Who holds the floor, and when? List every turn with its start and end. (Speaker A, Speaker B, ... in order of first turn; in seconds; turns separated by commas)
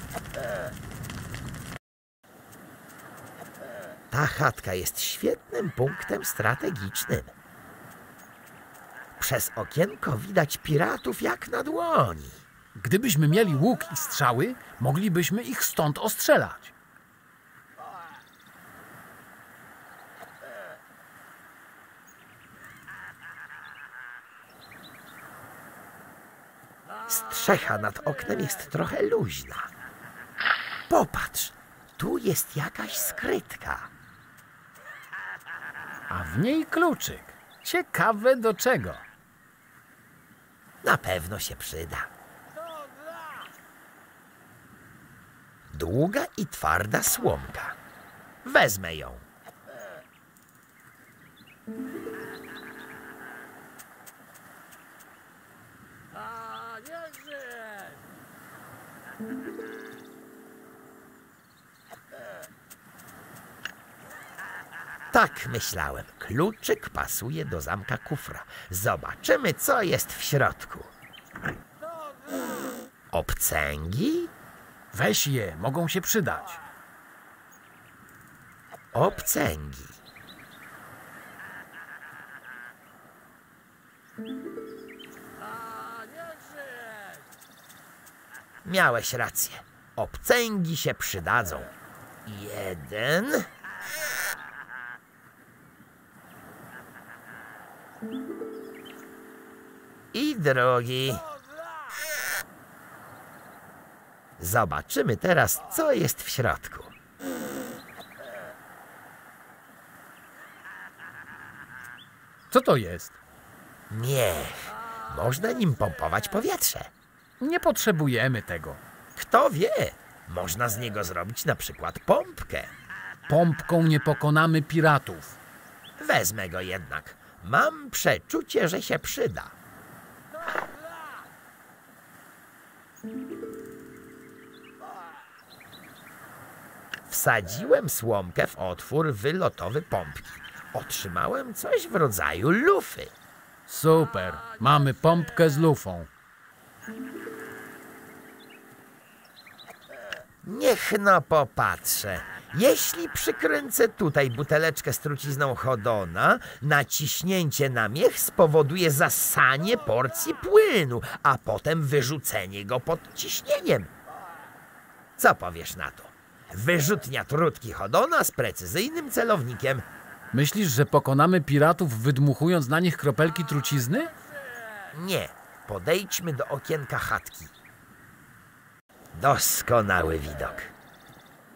Speaker A: 4.1-7.3, Speaker A: 9.2-12.4, Speaker B: 12.8-16.7, Speaker A: 27.1-29.7, Speaker A: 30.9-33.9, Speaker B: 36.1-39.0, Speaker A: 40.8-42.1, Speaker A: 45.7-47.8, Speaker A: 48.4-49.2, Speaker A: 65.1-70.9, Speaker A: 73.1-74.3, Speaker B: 74.9-76.6, Speaker A: 78.9-80.0, Speaker A: 88.6-91.7, Speaker A: 92.2-93.5, Speaker A: 100.1-101.3, Speaker A: 104.4-106.9, Speaker B: 112.5-113.1, Speaker A: 113.9-116.9, Speaker B: 117.4-118.8, Speaker A: 119.2-122.7, Speaker B: 123.3-125.3, Speaker A: 126.0-129.5, Speaker A: 137.1-143.1, Speaker B: 143.7-146.1, Speaker A: 150.4-163.9, Speaker A: 165.2-169.8, Speaker B: 170.3-174.1, Speaker A: 174.9-177.5, Speaker A: 179.1-180.7